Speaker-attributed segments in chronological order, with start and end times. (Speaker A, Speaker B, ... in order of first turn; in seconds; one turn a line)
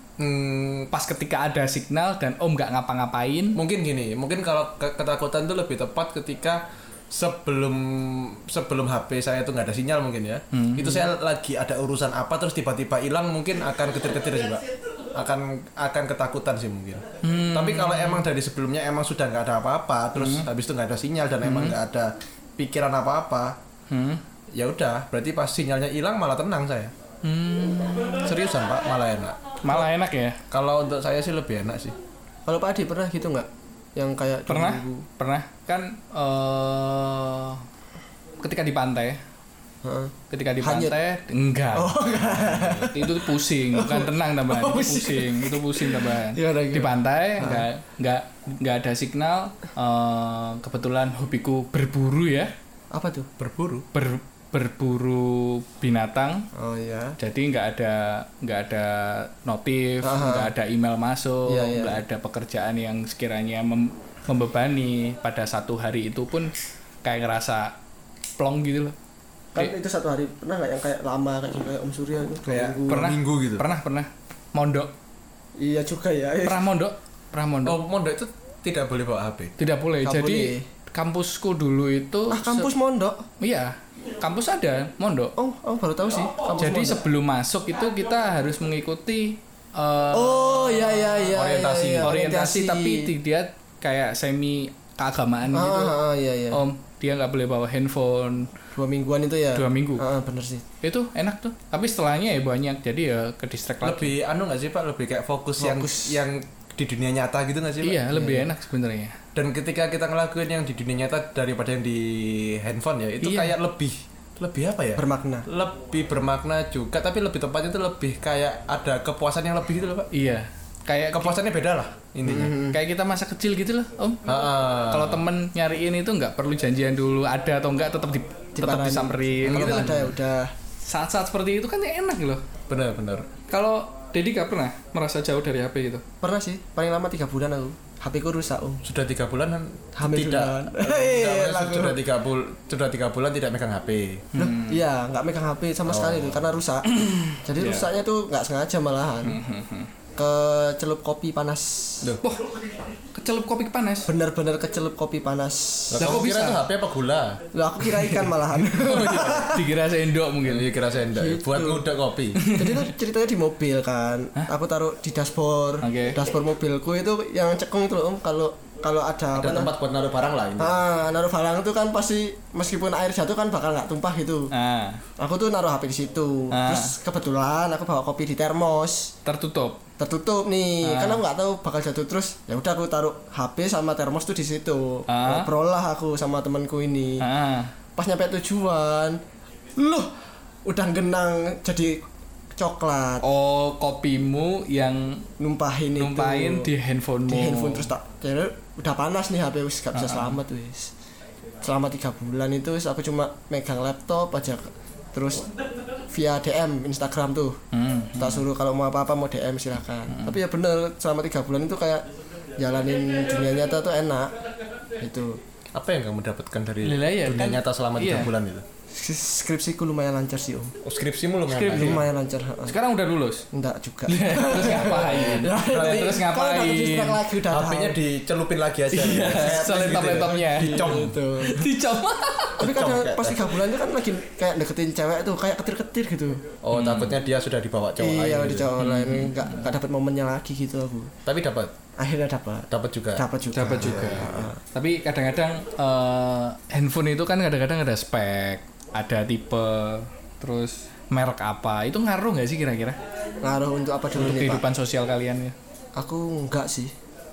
Speaker A: 0.2-0.9
Speaker B: 0.9-3.6
Speaker A: 3.5-23.6
Speaker B: 10.5-11.1
Speaker B: 17.2-18.3
Speaker B: 20.2-20.5
Speaker B: 21.4-21.8
Speaker B: 23.9-24.2
Speaker A: 24.5-26.9
Speaker B: 27.2-28.3
Speaker A: 28.2-29.8
Speaker B: 29.6-30.4
Speaker A: 30.5-31.9
Speaker C: 32.5-35.1
Speaker B: 34.5-37.6
Speaker B: 38.4-39.2
Speaker C: 39.8-41.0
Speaker B: 40.3-42.0
Speaker C: 41.8-47.7
Speaker B: 42.8-52.5
Speaker C: 52.9-53.3
Speaker A: 53.4-53.9
Speaker B: 53.9-56.5
Speaker C: 56.5-57.2
Speaker B: 57.2-66.5
Speaker C: 60.0-60.5
Speaker C: 61.5-62.0
Speaker B: 67.0-67.7
Speaker B: 68.4-69.0
Speaker C: 69.5-73.1
Speaker A: 72.5-73.6
Speaker B: 72.9-74.9
Speaker C: 75.6-76.6
Speaker B: 76.5-77.8
Speaker A: 77.7-79.5
Speaker B: 79.6-82.7
Speaker C: 80.0-80.7
Speaker C: 82.3-83.3
Speaker B: 83.4-85.3
Speaker C: 85.4-87.0
Speaker B: 86.6-91.3
Speaker C: 90.1-93.1
Speaker A: 91.3-92.1
Speaker B: 92.0-96.0
Speaker C: 95.5-96.6
Speaker B: 96.5-98.5
Speaker C: 98.8-100.6
Speaker B: 99.5-100.0
Speaker B: 100.8-104.1
Speaker A: 103.8-108.0
Speaker C: 105.6-106.2
Speaker B: 107.8-109.2
Speaker C: 108.1-108.4
Speaker A: 109.3-120.1
Speaker B: 113.2-113.6
Speaker C: 115.0-115.5
Speaker B: 120.1-121.4
Speaker A: 121.1-122.6
Speaker C: 122.2-122.8
Speaker B: 122.7-124.3
Speaker A: 124.3-125.2
Speaker B: 124.9-130.2
Speaker C: 128.6-130.5
Speaker A: 129.5-130.1
Speaker B: 130.8-132.5
Speaker A: 132.7-133.3
Speaker B: 133.5-136.0
Speaker C: 136.2-138.8
Speaker A: 138.8-144.3
Speaker C: 140.0-142.0
Speaker B: 144.3-144.8
Speaker C: 144.4-146.9
Speaker A: 145.9-146.5
Speaker B: 146.9-147.9
Speaker C: 147.4-149.4
Speaker B: 149.2-149.9
Speaker C: 150.2-152.1
Speaker B: 152.2-152.6
Speaker B: 153.1-154.1
Speaker C: 154.1-156.2
Speaker A: 155.9-157.4
Speaker B: 156.0-156.6
Speaker C: 157.5-159.7
Speaker B: 157.9-160.7
Speaker A: 160.4-162.4
Speaker C: 161.2-161.8
Speaker B: 162.4-162.9
Speaker C: 162.5-169.7
Speaker B: 165.8-166.2
Speaker A: 169.3-170.8
Speaker C: 170.6-174.5
Speaker B: 174.5-175.0
Speaker C: 175.2-179.1
Speaker B: 176.5-176.9
Speaker B: 179.2-179.8
Speaker C: 180.0-187.3
Speaker B: 180.8-181.2
Speaker B: 185.1-185.5
Speaker B: 187.2-187.7
Speaker C: 188.0-189.2
Speaker C: 189.8-190.1
Speaker C: 190.7-192.0
Speaker C: 192.6-193.2
Speaker B: 193.2-195.2
Speaker C: 195.4-196.7
Speaker B: 196.0-197.9
Speaker C: 197.3-200.9
Speaker B: 199.9-200.4
Speaker C: 201.6-205.5
Speaker C: 206.1-207.6
Speaker B: 207.7-208.4
Speaker C: 208.2-212.1
Speaker B: 210.1-210.4
Speaker C: 212.6-214.3
Speaker C: 215.0-215.4
Speaker A: 215.7-218.6
Speaker B: 216.8-218.3
Speaker C: 218.9-220.8
Speaker A: 220.8-222.0
Speaker B: 221.5-222.0
Speaker C: 221.7-222.8
Speaker B: 222.7-223.5
Speaker C: 223.5-228.0
Speaker B: 224.1-227.3
Speaker A: 225.6-226.2
Speaker A: 227.5-231.2
Speaker B: 228.9-232.7
Speaker C: 229.3-231.7
Speaker A: 232.6-233.6
Speaker C: 232.6-236.5
Speaker A: 236.6-238.7
Speaker B: 236.7-237.2
Speaker C: 238.0-241.1
Speaker B: 238.8-239.7
Speaker A: 241.2-241.7
Speaker C: 242.0-244.6
Speaker A: 242.7-244.4
Speaker B: 243.5-253.0
Speaker C: 253.4-254.7
Speaker B: 254.2-255.6
Speaker C: 256.0-256.9